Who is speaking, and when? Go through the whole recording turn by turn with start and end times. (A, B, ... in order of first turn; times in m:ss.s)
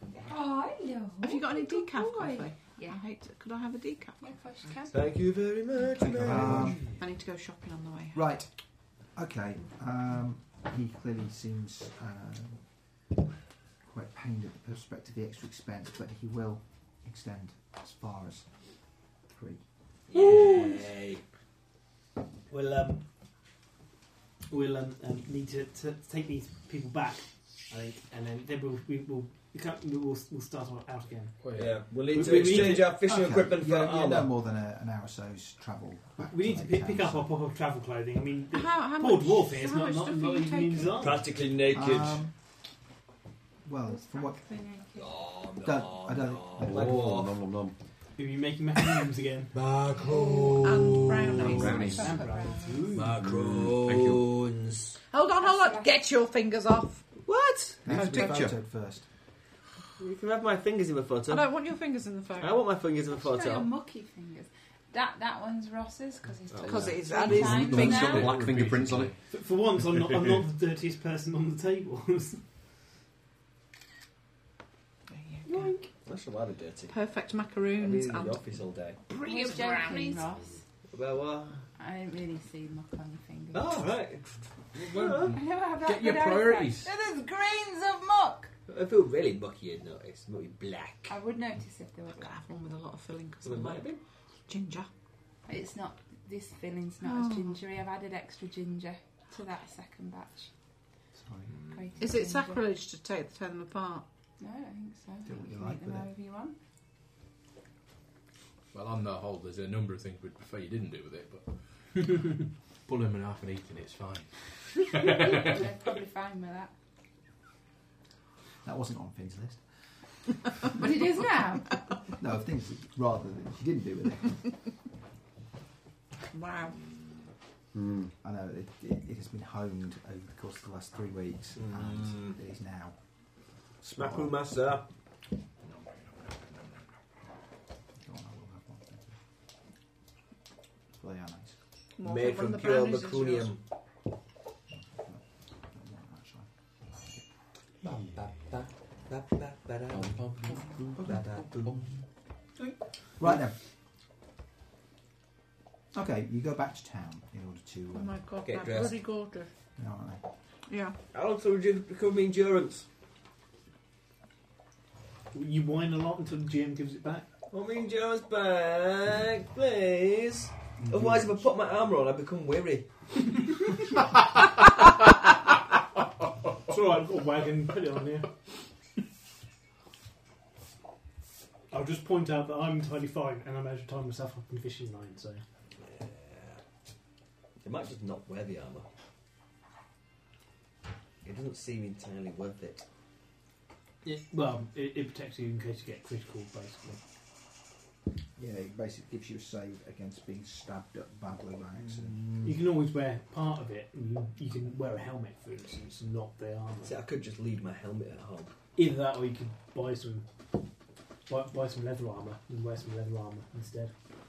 0:00.2-0:03.0 A
0:01.2-0:04.8 B
0:04.2-0:04.9 A
0:04.9-0:06.9 C
0:06.0-0:06.8 D
0:06.2-0:06.8 E
0:06.8-0:08.4 B
0:08.1-0:12.9 E
0:13.8-0:19.7 E
0:20.1-0:21.2 C
0:20.2-0:20.7 F
0:22.5-0:23.1 F
0:24.5-0:32.9 F
0:31.4-0:31.9 G
0:31.5-0:34.3 C
0:32.9-0:37.3 E
0:36.3-0:41.2 F
0:38.5-0:41.0 B
0:41.0-0:42.2 C
0:41.6-0:42.4 E
0:43.6-0:44.6 E
0:43.8-0:45.1 A
0:45.0-0:47.3 C
0:45.6-0:47.0 E
0:46.6-0:47.8 D
0:48.2-0:49.5 F
0:49.5-0:51.7 C
0:50.0-0:50.6 A
0:50.6-0:52.2 B
0:51.2-0:52.1 D
0:51.4-0:53.1 F
0:51.6-0:52.9 A
0:52.9-0:55.0 C
0:53.0-0:54.3 D
0:55.1-0:57.1 B
0:55.4-0:56.0 A
0:57.2-0:57.8 C
0:57.8-0:58.6 D
0:57.8-0:59.0 E
1:00.0-1:01.7 C
1:01.3-1:02.6 B
1:02.4-1:03.7 C
1:03.1-1:08.3 A
1:06.5-1:07.4 C
1:06.6-1:08.3 B
1:07.1-1:09.2 D
1:07.7-1:09.2 G
1:09.3-1:12.4 F
1:15.1-1:15.7 B
1:16.0-1:17.0 C
1:16.9-1:18.4 B
1:17.7-1:19.0 C
1:19.1-1:20.3 B
1:19.2-1:20.6 A
1:20.9-1:21.6 C
1:21.8-1:23.9 A
1:23.5-1:25.4 C
1:24.7-1:26.9 G
1:25.0-1:28.5 A
1:28.7-1:31.2 C
1:31.1-1:32.4 A
1:32.2-1:33.9 B
1:33.4-1:34.0 C
1:34.5-1:34.9 B
1:35.4-1:40.5 A
1:37.0-1:37.6 B
1:41.2-1:41.5 E
1:41.7-1:42.7 A
1:42.0-1:44.0 B
1:44.4-1:46.6 A
1:45.2-1:46.1 E
1:48.7-1:55.7 G
1:55.0-1:56.7 A
1:58.6-1:59.6 E
2:00.7-2:01.8 A
2:02.1-2:04.5 E
2:06.3-2:06.8 B
2:07.7-2:08.1 D
2:08.2-2:13.0 E
2:11.6-2:12.4 C
2:13.8-2:14.4 E
2:13.9-2:14.8 C
2:15.6-2:16.9 G
2:17.9-2:19.2 E
2:21.0-2:21.6 E
2:22.0-2:23.5 B
2:22.0-2:23.6 C
2:24.9-2:27.2 E
2:27.8-2:31.8 C
2:29.9-2:31.8 D
2:31.0-2:31.4 E
2:33.2-2:33.6 E
2:35.9-2:38.2 E
2:37.9-2:39.5 B
2:38.4-2:39.0 C
2:39.8-2:40.2 E
2:40.7-2:41.0 B
2:41.1-2:42.8 C
2:45.3-2:47.3 F
2:47.5-2:53.5 C
2:50.8-2:51.3 E
2:56.7-2:58.3 F
3:01.7-3:05.4 F
3:05.8-3:06.6 C
3:07.6-3:08.9 C
3:11.2-3:12.8 C
3:14.0-3:17.0 F
3:18.4-3:22.2 E
3:22.0-3:22.5 C
3:22.4-3:27.0 F
3:26.8-3:28.5 C
3:28.7-3:30.3 F
3:31.2-3:33.9 F